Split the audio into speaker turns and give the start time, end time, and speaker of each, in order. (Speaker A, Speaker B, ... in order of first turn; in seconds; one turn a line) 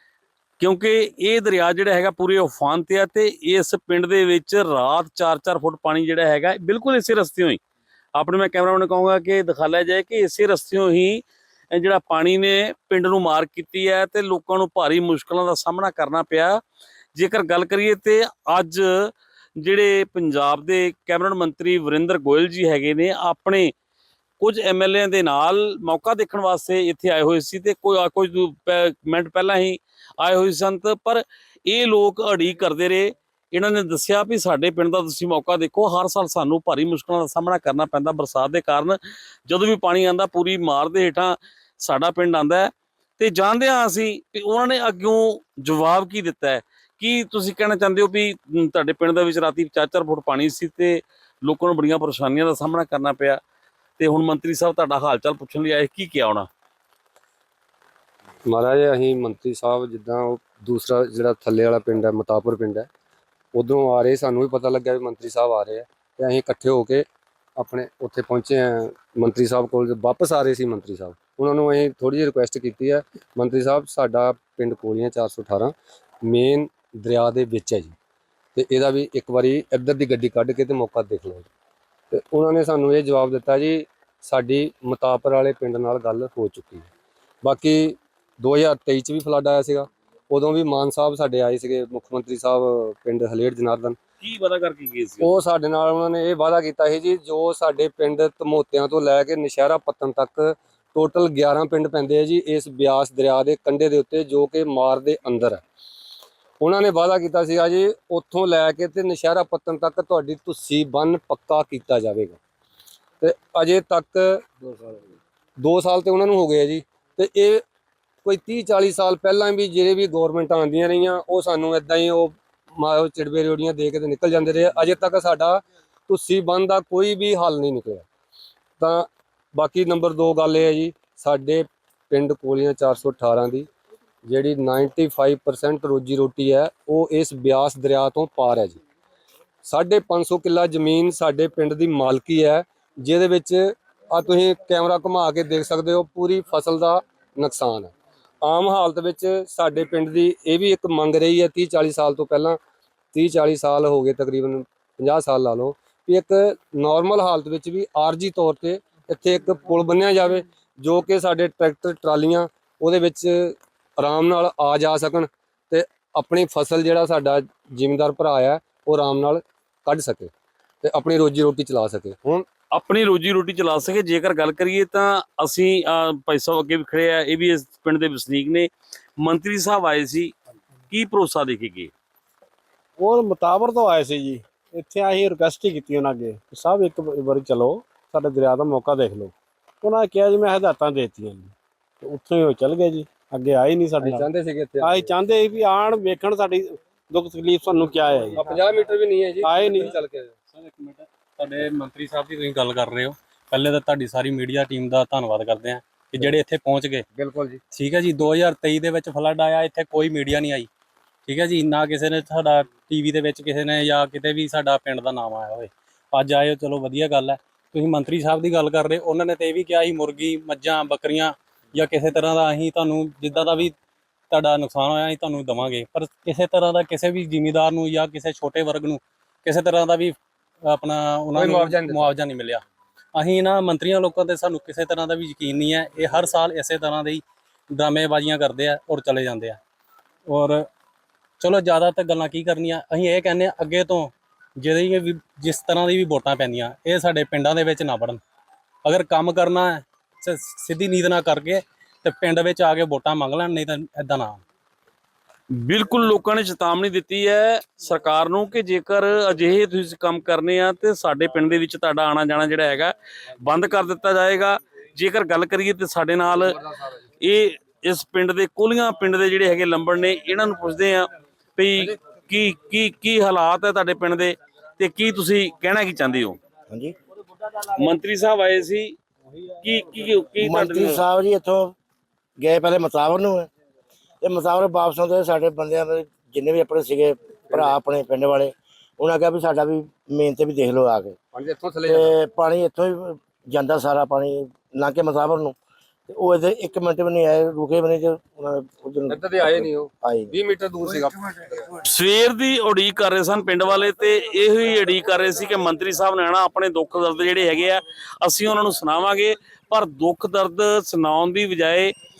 Speaker A: 0.6-7.6
Speaker A: 8.1-16.6
Speaker A: 17.1-23.7
Speaker A: 24.4-53.4
Speaker A: 54.0-56.5
Speaker B: 58.5-62.9
Speaker B: 63.5-67.0
Speaker B: 67.6-75.7
Speaker B: 76.2-77.9
Speaker B: 78.5-81.5
Speaker B: 82.1-86.9
Speaker B: 87.4-94.0
Speaker A: 94.2-95.3
Speaker B: 95.2-105.6
Speaker B: 106.6-112.4
Speaker B: 113.2-114.5
Speaker B: 115.6-117.6
Speaker B: 118.2-128.0
Speaker B: 128.8-133.7
Speaker B: 134.2-138.8
Speaker B: 139.6-143.6
Speaker B: 144.1-147.9
Speaker B: 148.4-152.6
Speaker B: 153.1-170.3
Speaker B: 170.8-172.5
Speaker A: 172.7-180.3
Speaker A: 180.9-181.9
Speaker C: 183.0-194.2
Speaker B: 194.0-195.1
Speaker C: 194.8-198.4
Speaker B: 198.3-200.3
Speaker C: 199.5-199.9
Speaker D: 200.5-207.1
Speaker B: 207.1-207.6
Speaker D: 207.7-210.7
Speaker D: 211.2-223.8
Speaker D: 224.3-232.6
Speaker B: 231.3-232.1
Speaker D: 233.1-239.6
Speaker D: 240.2-240.7
Speaker D: 241.4-248.2
Speaker D: 248.8-254.4
Speaker A: 255.5-266.6
Speaker A: 267.2-276.4
Speaker E: 276.7-276.9
Speaker A: 277.6-278.9
Speaker A: 279.6-281.0
Speaker E: 280.4-281.7
Speaker E: 282.4-283.5
Speaker E: 284.2-291.2
Speaker B: 291.3-292.1
Speaker E: 291.9-295.6
Speaker E: 296.1-300.3
Speaker B: 299.1-301.7
Speaker A: 301.8-311.9